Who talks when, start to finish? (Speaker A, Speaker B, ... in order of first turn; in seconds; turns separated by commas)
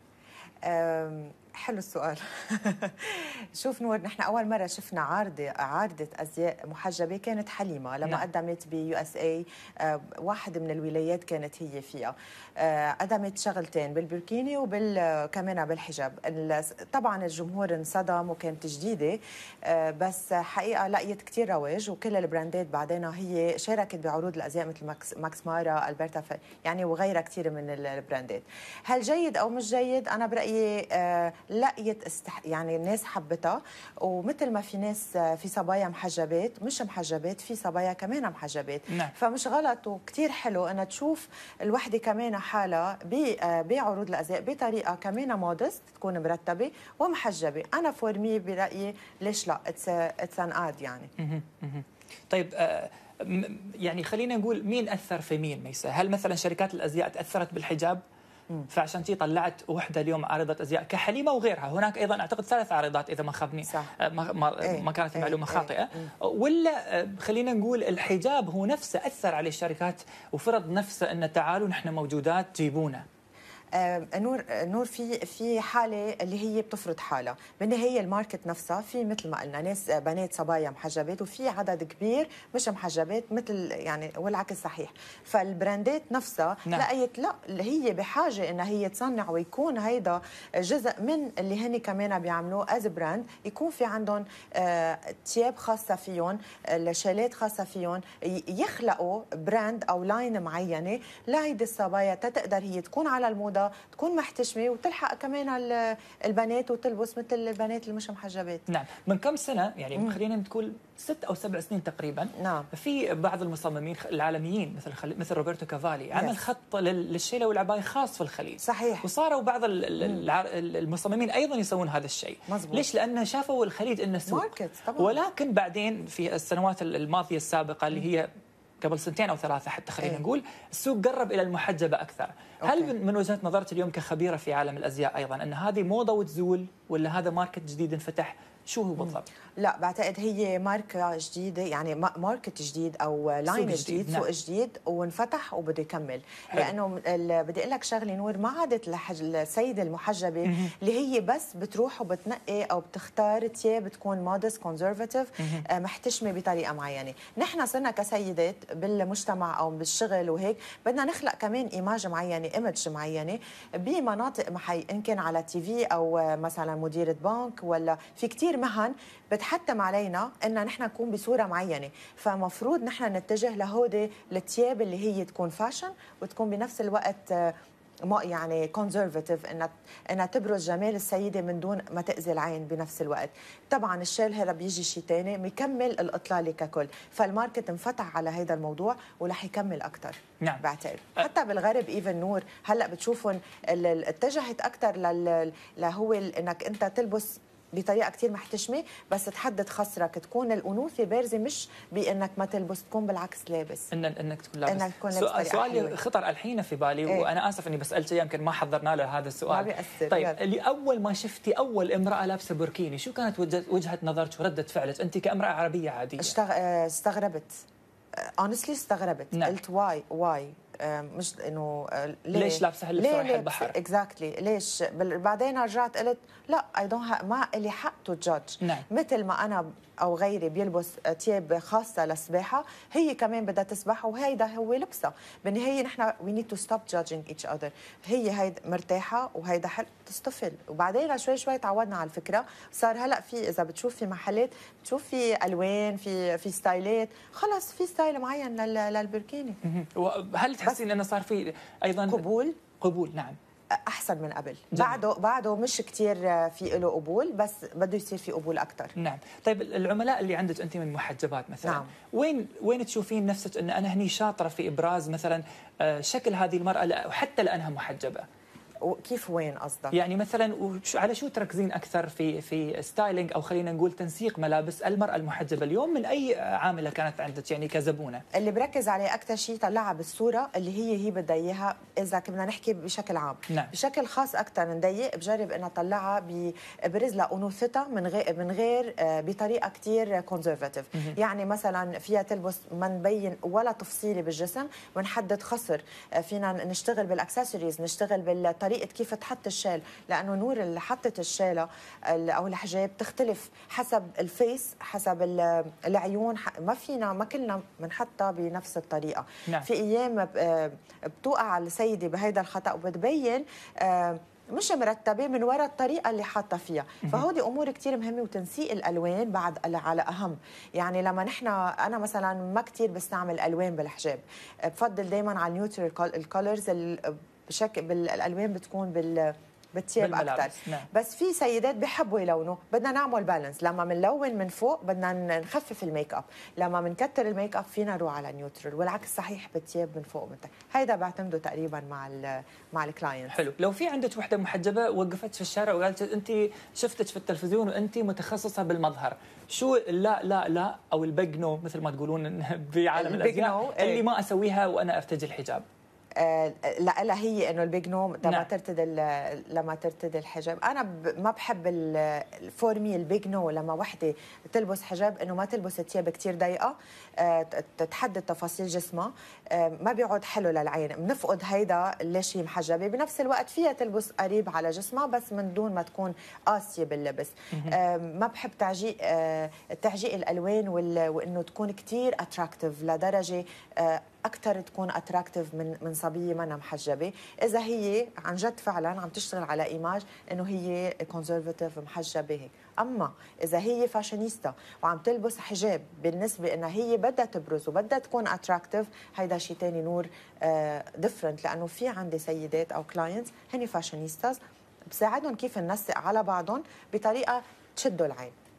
Speaker A: 0.7-51.1, Speaker B: 51.2-58.0, Speaker B: 58.7-73.0, Speaker A: 63.7-63.9, Speaker A: 64.6-66.1, Speaker A: 73.7-108.6, Speaker B: 108.7-128.3, Speaker A: 112.4-112.7, Speaker A: 118.6-119.1, Speaker A: 122.5-122.9, Speaker A: 124.3-125.2, Speaker B: 128.8-139.3, Speaker A: 132.6-132.9, Speaker A: 139.0-177.6, Speaker B: 143.5-144.3, Speaker B: 150.4-150.7, Speaker B: 155.4-155.7, Speaker A: 178.1-203.9, Speaker B: 203.9-216.3, Speaker A: 204.7-206.0, Speaker A: 209.5-210.4, Speaker A: 216.2-217.5, Speaker A: 218.2-249.6, Speaker B: 222.3-223.8, Speaker B: 249.6-252.2, Speaker A: 252.1-252.6, Speaker B: 252.8-253.4, Speaker A: 253.7-258.9, Speaker B: 254.7-255.0, Speaker B: 259.0-268.3, Speaker A: 261.6-261.9, Speaker A: 268.8-269.9, Speaker B: 269.9-278.2, Speaker A: 278.3-343.4, Speaker B: 330.0-330.9, Speaker B: 343.3-355.6, Speaker A: 353.0-354.0, Speaker A: 356.2-404.4, Speaker B: 358.2-358.5, Speaker A: 404.9-408.3